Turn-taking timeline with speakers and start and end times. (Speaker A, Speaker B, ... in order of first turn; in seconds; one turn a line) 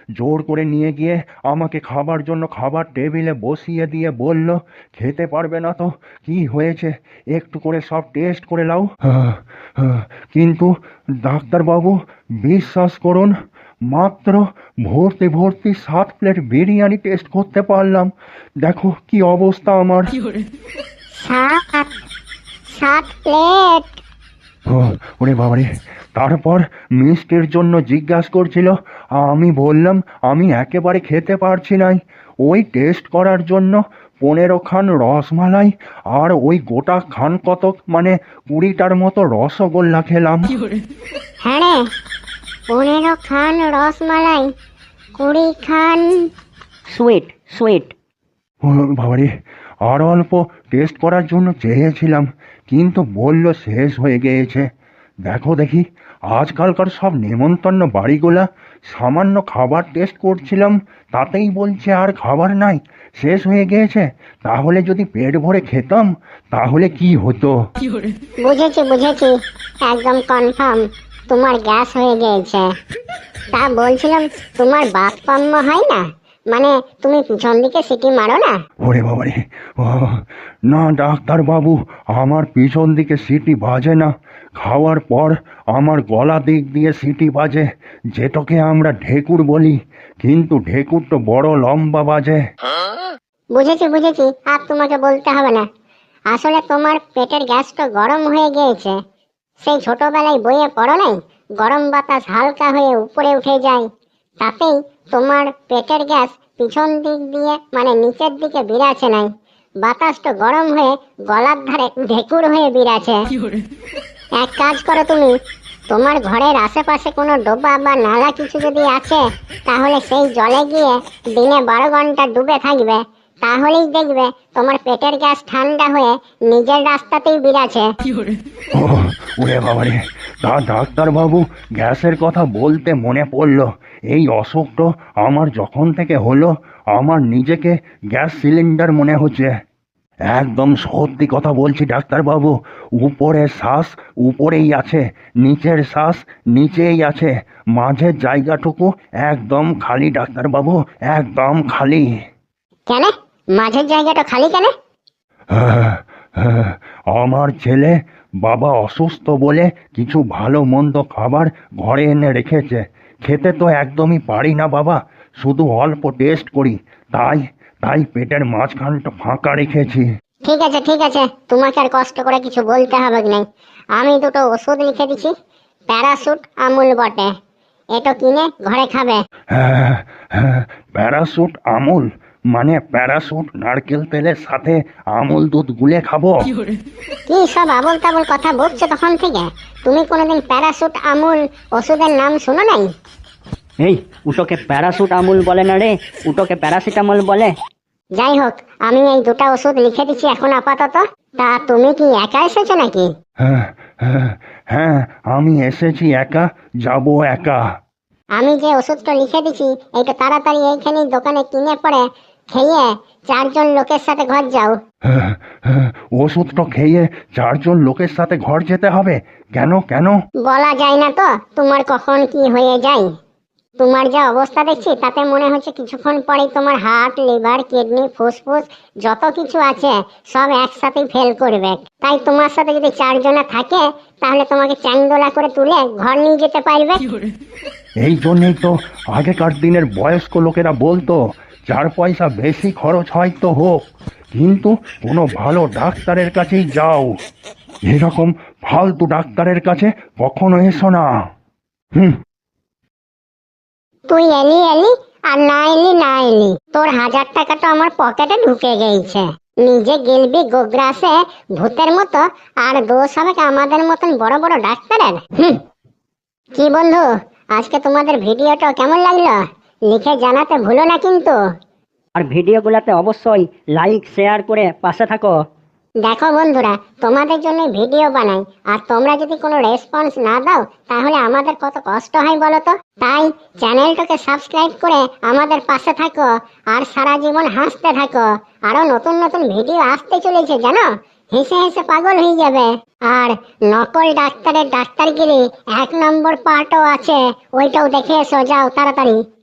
Speaker A: 0.2-10.7
Speaker A: 11.2-13.3
Speaker A: 13.9-18.1
Speaker A: 18.6-20.1
Speaker B: 21.1-21.9
Speaker B: 22.7-23.9
Speaker A: 24.7-40.6
Speaker B: 41.4-41.8
Speaker B: 42.7-44.5
Speaker B: 45.2-46.1
Speaker C: 46.9-47.9
Speaker A: 48.6-49.3
Speaker A: 49.9-54.7
Speaker A: 55.3-67.5
Speaker B: 68.4-72.7
Speaker B: 73.5-78.5
Speaker A: 78.8-92.4
Speaker B: 93.5-95.6
Speaker B: 96.3-99.0
Speaker B: 99.6-103.9
Speaker B: 104.4-109.3
Speaker B: 109.8-113.3
Speaker B: 114.4-115.3
Speaker B: 115.9-127.9
Speaker A: 128.8-139.5
Speaker A: 140.3-152.1
Speaker B: 152.9-154.7
Speaker A: 155.5-170.1
Speaker B: 170.5-173.4
Speaker B: 174.0-175.3
Speaker B: 175.9-177.3
Speaker B: 177.9-179.2
Speaker A: 179.5-186.5
Speaker B: 187.3-192.9
Speaker C: 193.8-197.5
Speaker B: 198.2-203.1
Speaker A: 203.4-207.6
Speaker B: 208.4-214.7
Speaker A: 215.1-220.2
Speaker B: 220.5-223.1
Speaker B: 223.8-237.1
Speaker A: 238.0-243.8
Speaker A: 244.3-247.1
Speaker A: 247.9-251.1
Speaker B: 254.1-265.6
Speaker B: 266.6-271.4
Speaker C: 272.2-275.4
Speaker B: 276.0-299.2